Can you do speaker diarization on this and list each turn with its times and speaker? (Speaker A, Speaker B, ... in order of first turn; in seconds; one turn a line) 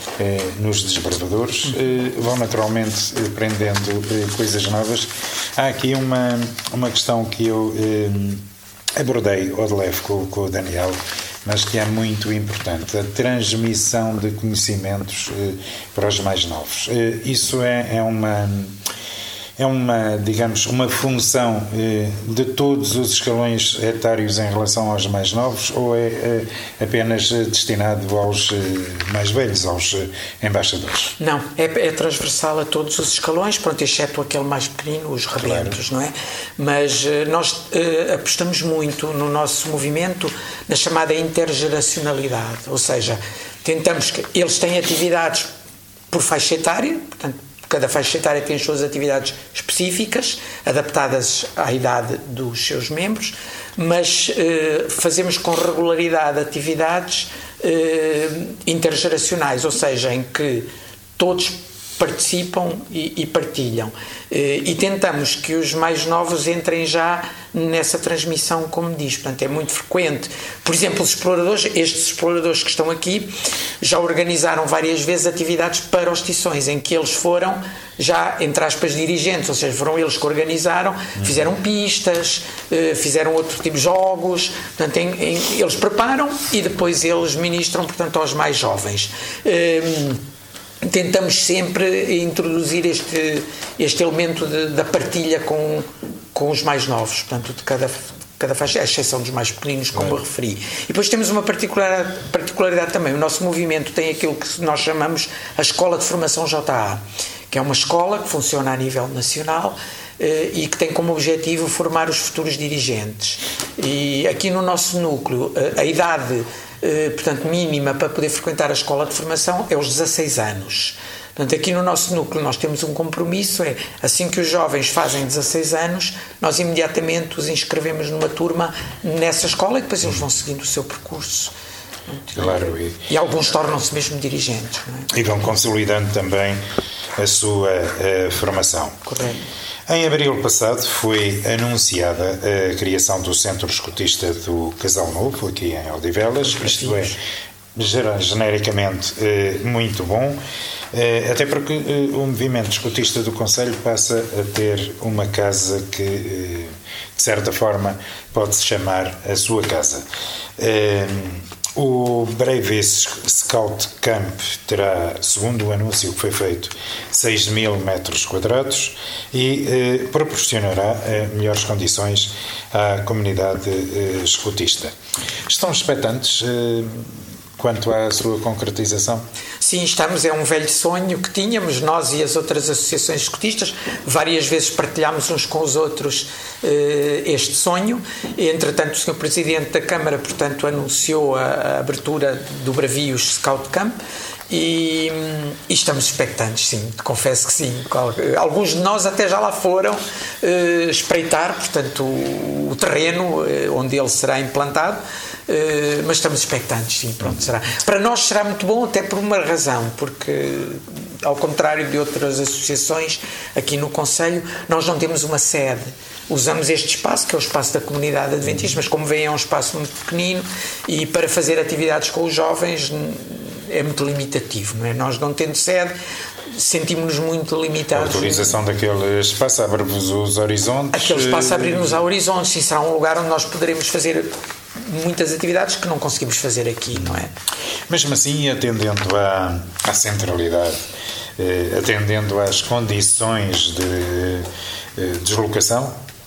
Speaker A: 0.2-18.8
Speaker A: 19.6-31.1
Speaker B: 31.2-45.5
Speaker A: 35.4-35.8
Speaker B: 46.1-90.2
Speaker A: 81.2-81.5
Speaker B: 90.8-131.5
Speaker B: 132.1-135.1
Speaker A: 132.3-133.0
Speaker A: 135.1-136.6
Speaker A: 137.2-139.0
Speaker B: 139.1-139.4
Speaker A: 139.9-147.2
Speaker B: 146.4-147.2
Speaker A: 147.8-150.4
Speaker A: 150.9-160.1
Speaker A: 160.6-174.9
Speaker A: 175.5-179.2
Speaker B: 179.6-194.0
Speaker B: 194.5-225.9
Speaker B: 226.5-228.6
Speaker A: 227.9-232.0
Speaker B: 230.9-237.3
Speaker A: 237.9-246.0